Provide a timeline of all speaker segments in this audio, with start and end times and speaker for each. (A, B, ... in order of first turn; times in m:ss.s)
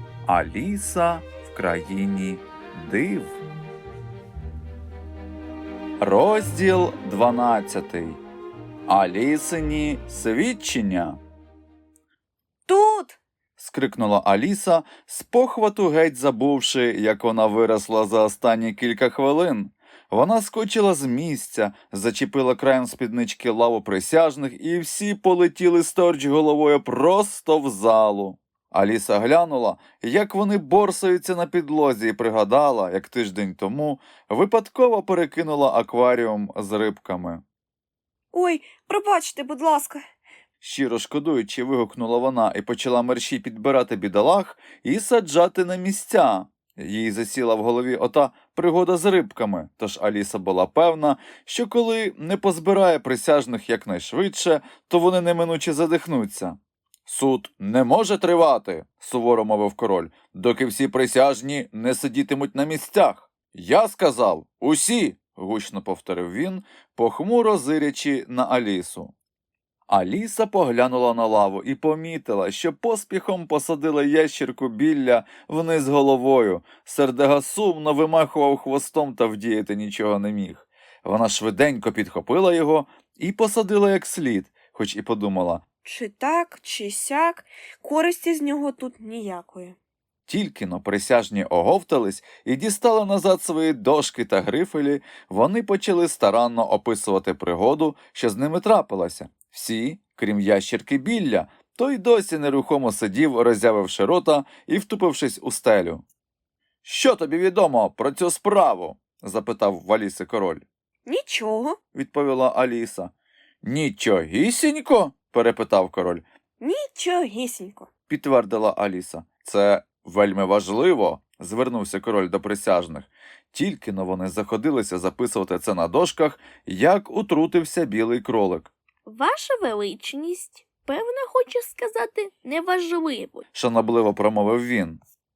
0:00.3-0:03.4 A
0:06.0-0:08.2 A
0:08.9-0:11.2 A
0:12.7-0:13.2 B
0:13.6-0:37.4 A
0:38.3-0:40.0 B
0:40.6-1:09.1 A
1:09.9-1:25.6 A
1:25.8-1:29.8 B
1:30.3-1:46.0 A
1:46.8-1:50.6 A
1:51.1-1:51.8 B
1:51.9-1:53.1 A
1:53.6-1:56.2 A
1:56.6-1:57.9 B
1:58.1-2:08.7 A
2:09.1-2:13.4 C
2:13.5-2:15.0 A